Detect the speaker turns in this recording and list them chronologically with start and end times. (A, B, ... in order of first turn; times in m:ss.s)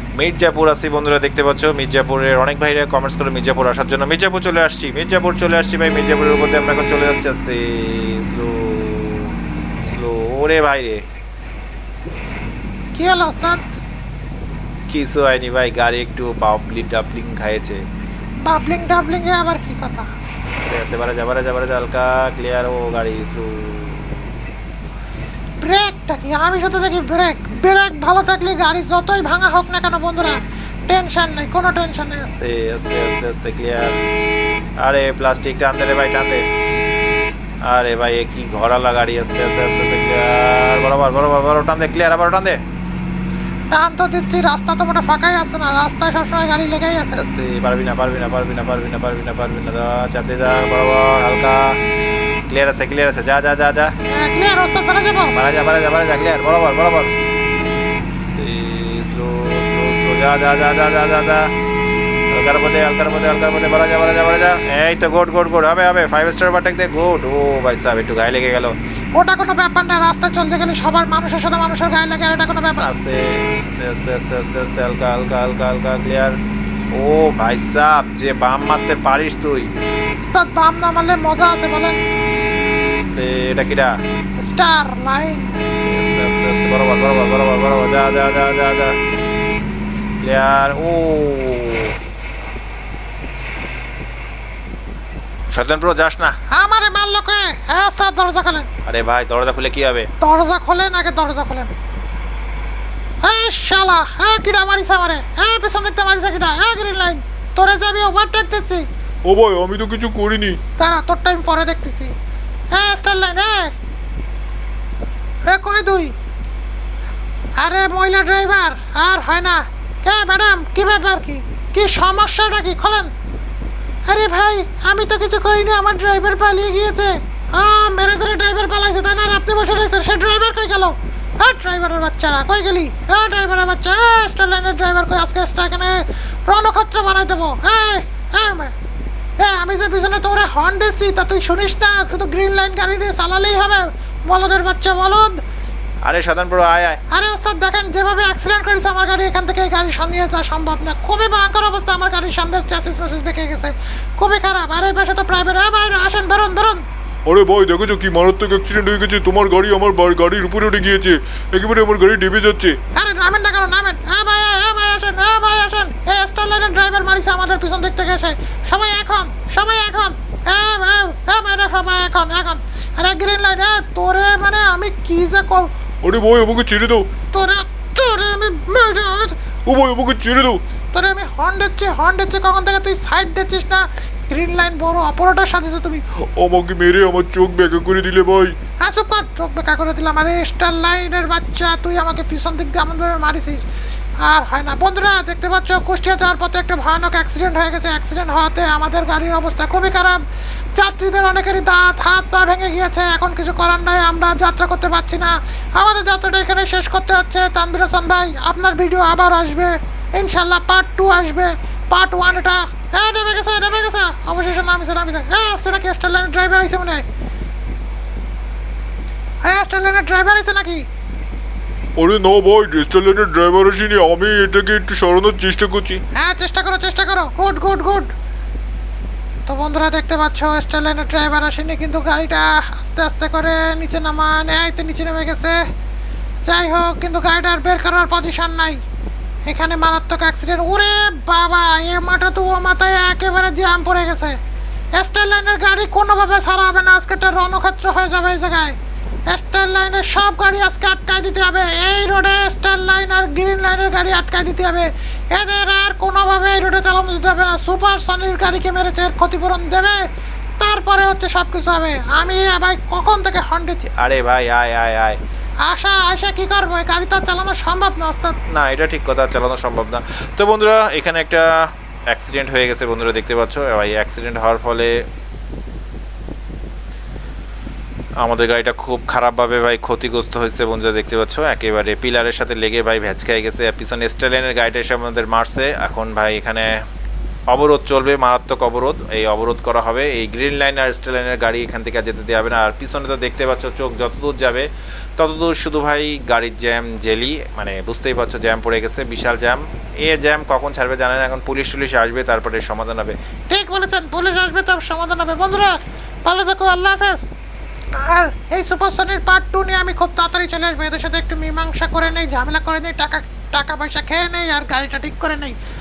0:00.2-0:11.0 A
0:12.9-0:13.7 B
0:14.9-0:17.8 A
0:18.4-0:20.1 B
0:20.6-0:24.3 A
0:25.6-0:32.3 B
0:32.4-0:34.0 A
0:34.8-0:36.5 A
0:37.6-0:42.6 A
0:43.7-0:47.2 B
0:47.1-0:51.8 A
0:52.5-0:54.0 A
0:54.1-0:55.3 B
0:55.3-0:57.1 A
0:58.3-1:01.5 A
1:02.3-1:08.7 A
1:09.1-1:12.9 B
1:12.8-1:16.4 A
1:16.9-1:19.7 A
1:20.2-1:22.0 B
1:23.0-1:24.0 A
1:24.4-1:25.5 B
1:25.6-1:29.0 A
1:30.2-1:32.0 A
1:35.5-1:36.4 A
1:36.5-1:38.7 B
1:38.8-1:40.1 A
1:40.2-1:41.7 B
1:43.2-1:48.8 B
1:49.2-1:50.6 C
1:50.8-1:52.1 B
1:52.7-1:53.7 B
1:55.5-1:56.1 B
1:57.6-2:03.1 B
2:04.0-2:18.7 B
2:19.4-2:25.4 B
2:26.0-2:27.0 A
2:27.1-2:36.8 B
2:37.2-2:42.8 C
2:42.9-2:55.7 B
2:56.0-2:57.1 C
2:57.3-2:59.4 B
2:59.6-3:00.6 C
3:00.9-3:06.0 B
3:06.4-3:08.6 C
3:08.8-3:13.6 B
3:14.2-3:20.2 B
3:20.7-3:37.0 B
3:39.4-3:40.8 B
3:42.0-3:46.0 C
3:46.1-3:48.1 B
3:49.5-3:55.6 B
3:56.4-3:58.8 B
3:59.4-4:04.4 B
4:04.9-4:08.8 B
4:09.3-4:20.0 B
4:20.6-4:23.8 B
4:23.9-4:25.2 A
4:25.6-4:28.4 B
4:28.5-4:35.0 A
4:38.2-4:46.8 A
4:47.5-5:03.1 A
5:03.5-5:07.3 B
5:07.9-5:15.6 B